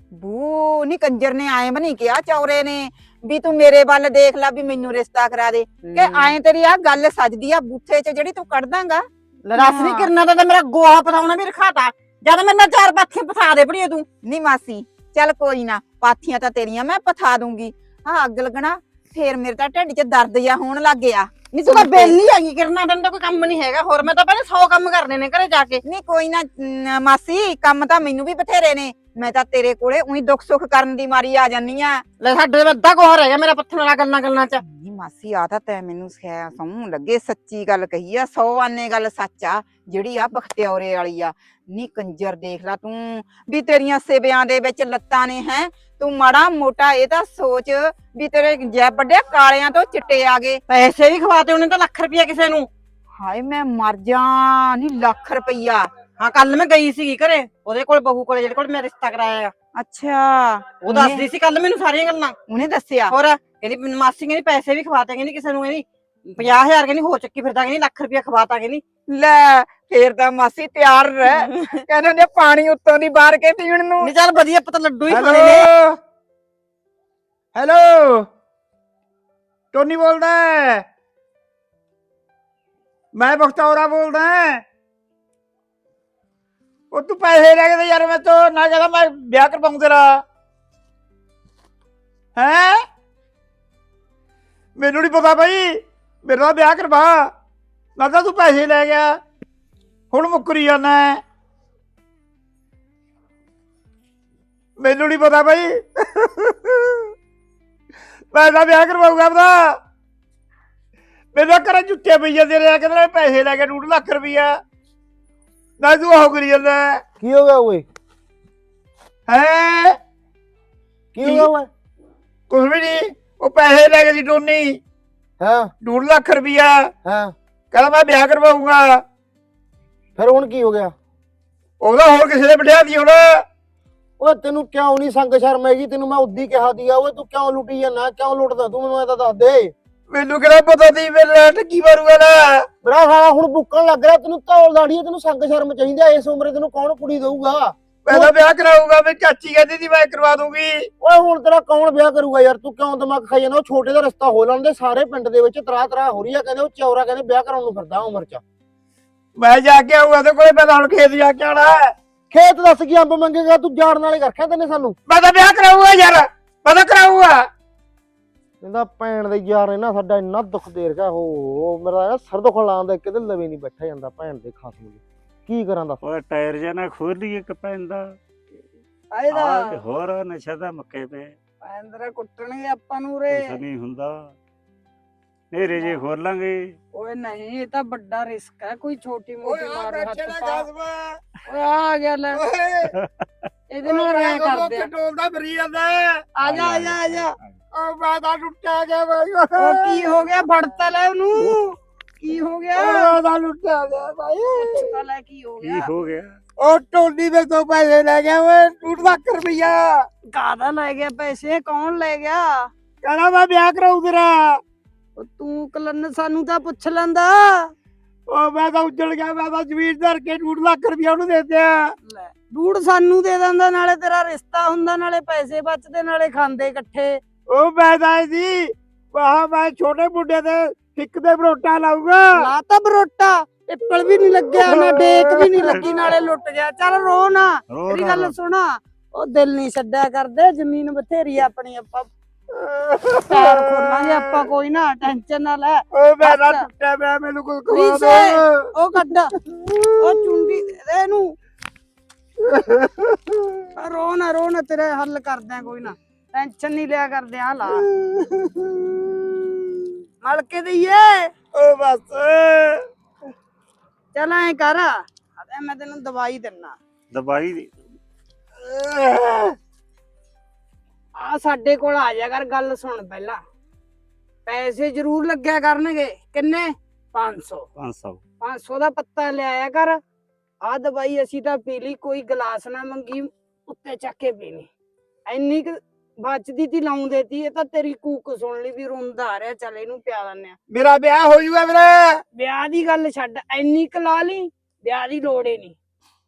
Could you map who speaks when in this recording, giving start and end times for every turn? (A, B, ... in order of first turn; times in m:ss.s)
0:00.1-0:10.1 A
0:05.8-0:06.3 B
0:09.4-0:14.1 B
0:14.2-0:22.2 A
0:21.5-0:25.8 B
0:25.8-0:32.0 A
0:32.2-0:34.6 B
0:34.6-0:50.6 A
0:50.7-0:52.7 B
0:53.2-0:55.9 A
0:56.2-0:59.5 B
0:59.8-1:01.3 A
1:00.8-1:02.4 B
1:02.5-1:03.1 A
1:03.1-1:08.8 B
1:09.1-1:14.1 A
1:14.0-1:15.7 B
1:15.1-1:16.0 C
1:17.5-1:18.3 C
1:19.7-1:20.8 C
1:23.1-1:24.6 C
1:26.9-1:30.2 C
1:32.4-1:32.8 C
1:34.8-1:37.3 C
1:38.0-1:39.2 C
1:40.1-1:41.2 C
1:44.8-1:47.0 C
1:48.3-1:49.8 C
1:51.3-1:54.6 C
1:55.8-1:57.0 C
1:57.2-1:57.8 D
1:59.3-2:00.0 C
2:01.2-2:01.7 D
2:01.2-2:01.5 C
2:02.5-2:04.8 C
2:05.4-2:05.7 D
2:05.8-2:06.9 C
2:07.0-2:07.3 D
2:07.7-2:09.0 C
2:10.2-2:10.9 D
2:11.8-2:13.4 C
2:14.2-2:19.7 D
2:20.1-2:22.6 C
2:22.8-2:28.3 D
2:28.1-2:30.9 C
2:31.0-2:38.4 D
2:39.4-2:41.9 C
2:42.3-2:45.0 D
2:45.1-2:47.5 C
2:48.6-2:56.0 D
2:56.0-2:58.2 E
2:59.1-2:59.8 F
2:59.3-3:01.4 E
3:01.6-3:03.6 F
3:03.3-3:04.3 E
3:05.5-3:06.8 E
3:06.9-3:10.7 F
3:09.4-3:11.2 C
3:11.5-3:12.4 F
3:12.3-3:12.9 C
3:13.7-3:14.9 F
3:13.8-3:16.2 C
3:16.4-3:17.4 F
3:16.4-3:17.6 E
3:17.7-3:20.2 C
3:19.6-3:23.2 F
3:22.8-3:25.0 C
3:24.6-3:26.0 F
3:25.6-3:26.4 E
3:26.6-3:30.1 C
3:30.3-3:32.7 F
3:33.0-3:34.6 C
3:35.2-3:37.7 F
3:38.3-3:41.9 C
3:42.0-3:47.2 F
3:47.5-3:52.5 C
3:52.3-4:02.1 F
3:54.5-3:55.6 C
3:57.7-3:58.3 E
4:02.6-4:04.5 C
4:03.3-4:06.7 F
4:05.9-4:08.7 C
4:07.7-4:09.3 F
4:09.5-4:10.4 C
4:10.0-4:11.4 F
4:12.4-4:13.4 C
4:13.8-4:17.8 F
4:18.0-4:19.5 C
4:20.2-4:21.3 F
4:21.5-4:22.8 C
4:24.2-4:26.8 F
4:27.1-4:27.7 E
4:28.6-4:29.6 C
4:31.2-4:33.4 F
4:34.5-4:37.6 F
4:37.8-4:38.2 E
4:38.4-4:40.0 F
4:40.6-4:44.7 F
4:45.3-4:50.6 F
4:50.7-4:52.2 C
4:52.3-4:55.8 F